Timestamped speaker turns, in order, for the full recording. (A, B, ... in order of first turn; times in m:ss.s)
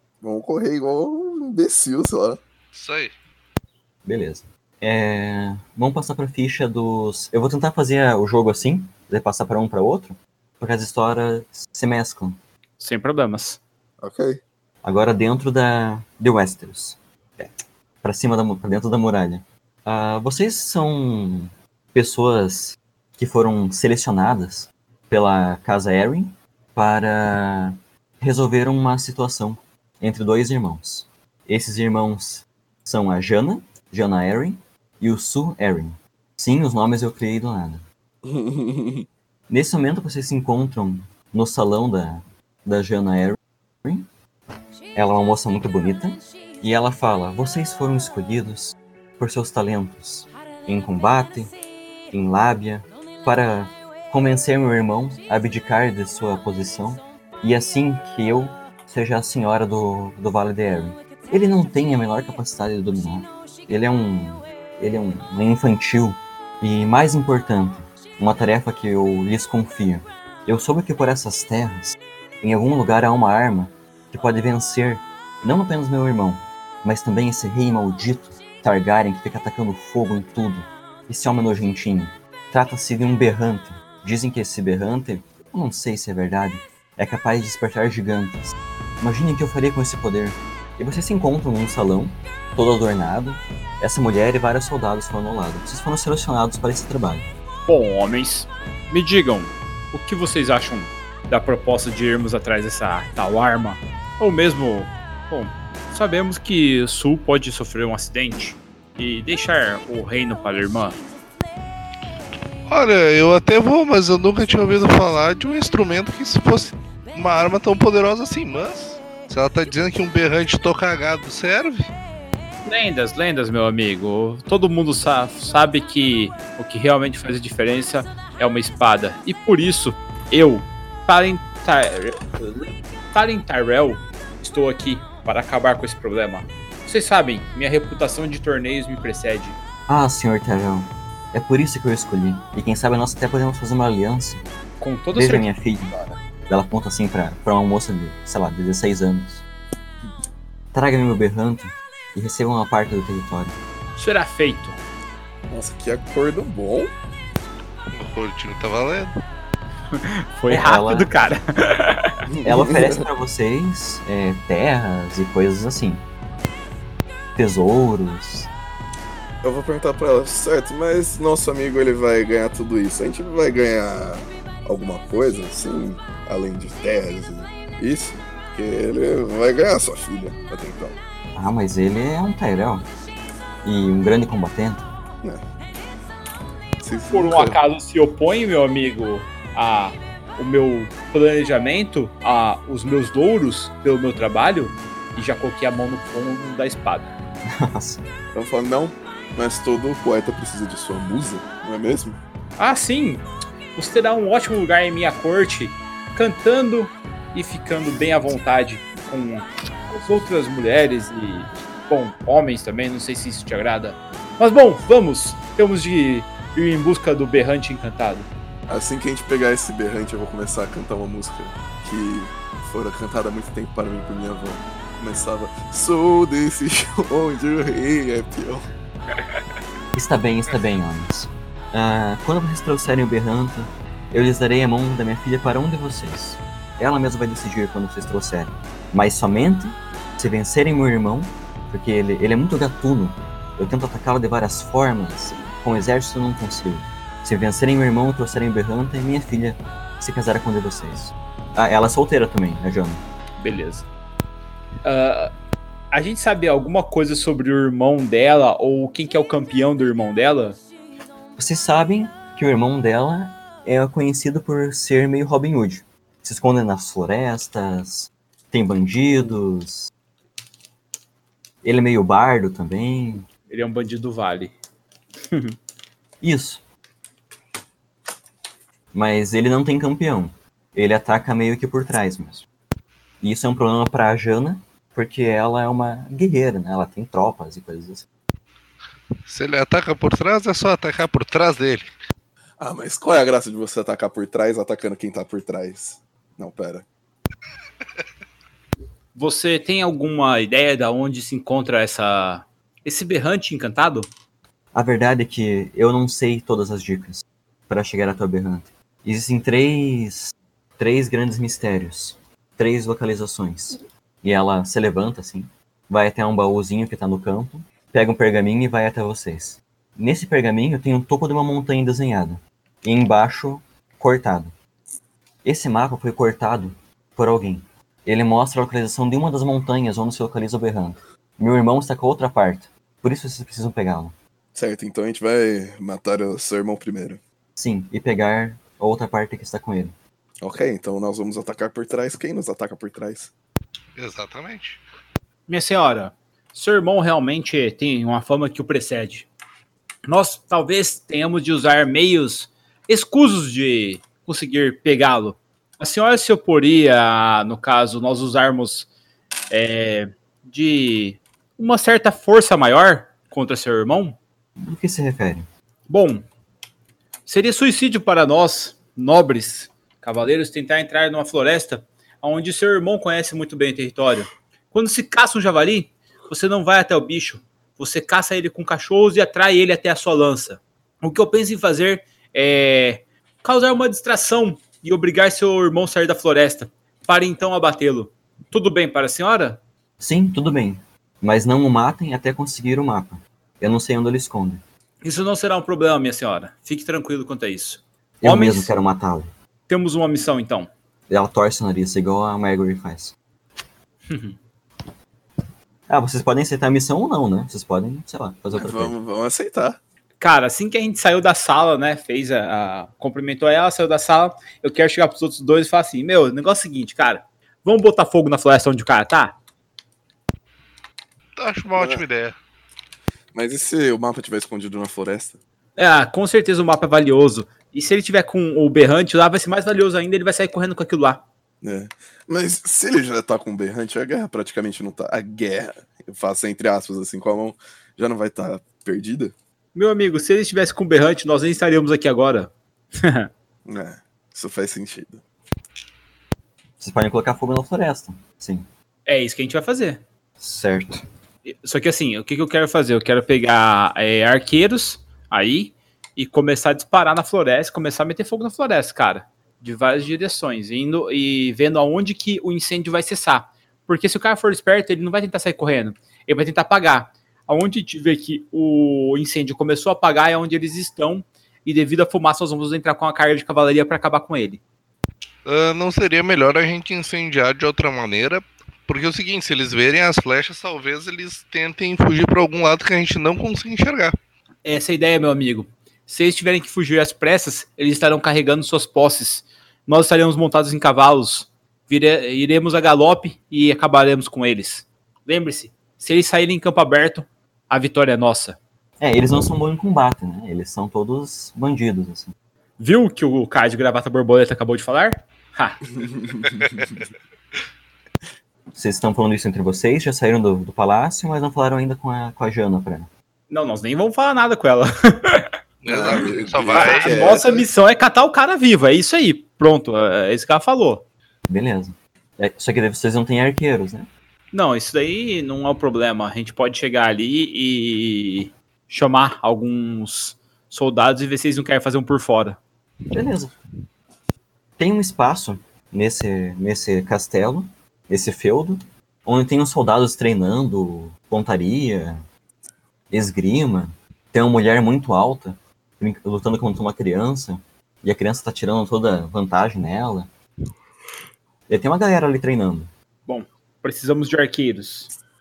0:00.2-0:02.4 A
0:02.7-0:03.1 B
0:04.0-0:12.4 C
0:12.8-0:13.6 D
0:14.0-0:14.4 A
0:14.8-0:17.5 C
0:18.0-0:37.8 C
0:38.2-0:39.0 A
0:39.5-0:44.1 C
0:44.9-0:51.5 C
0:52.1-1:37.3 C
1:37.7-1:51.0 D
1:52.7-2:01.9 B
2:02.6-2:19.6 D
2:19.9-2:24.4 C
2:24.8-2:26.2 D
2:25.1-2:26.0 C
2:26.5-2:29.4 C
2:30.7-2:33.6 C
2:34.0-2:34.8 D
2:35.5-2:36.9 A
2:37.9-2:39.1 B
2:39.9-2:42.2 D
2:40.5-2:41.1 C
2:42.3-2:43.0 A
2:42.4-2:46.0 C
2:47.4-2:48.5 C
2:49.4-3:01.0 A
3:01.3-3:02.9 C
3:03.6-3:04.9 C
3:06.8-3:07.6 A
3:07.1-3:17.1 D
3:17.5-3:18.0 C
3:18.3-3:22.2 A
3:22.6-3:38.3 D
3:38.7-3:48.6 A
3:49.9-4:13.0 C
4:13.4-4:13.9 D
4:14.8-4:15.3 D
4:15.9-4:20.6 D
4:21.4-4:29.9 C
4:31.6-4:33.3 C
4:33.5-4:34.5 D
4:35.3-4:35.5 D
4:36.2-4:36.6 C
4:38.9-4:42.4 C
4:43.2-4:48.0 C
4:49.2-4:51.9 B
4:52.6-4:56.8 A
4:59.1-5:04.1 D
5:04.7-5:24.5 C
5:25.4-5:34.1 C
5:34.5-5:37.2 A
5:37.6-5:39.9 C
5:40.4-5:43.3 A
5:44.0-5:44.8 B
5:45.5-5:49.3 D
5:50.1-5:58.9 D
5:59.5-6:04.2 D
6:04.6-6:05.5 C
6:05.9-6:06.2 D
6:07.2-6:29.6 D
6:30.0-6:34.6 C
6:35.0-6:38.7 D
6:38.2-6:39.3 C
6:39.7-6:40.7 D
6:41.1-6:43.1 C
6:44.1-6:44.4 D
6:45.9-6:48.9 C
6:48.5-6:49.8 A
6:50.2-6:59.4 D
7:01.4-7:02.3 B
7:01.8-7:02.0 A
7:03.3-7:05.4 A
7:05.8-7:11.2 D
7:11.6-7:19.3 A
7:19.7-7:23.3 D
7:23.6-7:25.2 A
7:26.8-7:28.7 C
7:29.0-7:30.0 D
7:30.4-7:31.0 C
7:31.4-7:54.6 D
7:55.4-8:04.1 B
8:04.6-8:18.6 D
8:19.0-8:22.3 C
8:22.8-8:25.8 D
8:26.0-8:26.9 A
8:28.7-8:33.1 C
8:33.5-8:35.5 D
8:35.8-8:37.3 B
8:35.9-8:37.6 A
8:36.7-8:41.0 D
8:41.5-8:44.1 C
8:44.5-8:52.6 D
8:53.1-8:53.5 C
8:54.8-9:02.2 C
9:03.1-9:10.3 C
9:11.7-9:12.9 C
9:13.3-9:15.1 D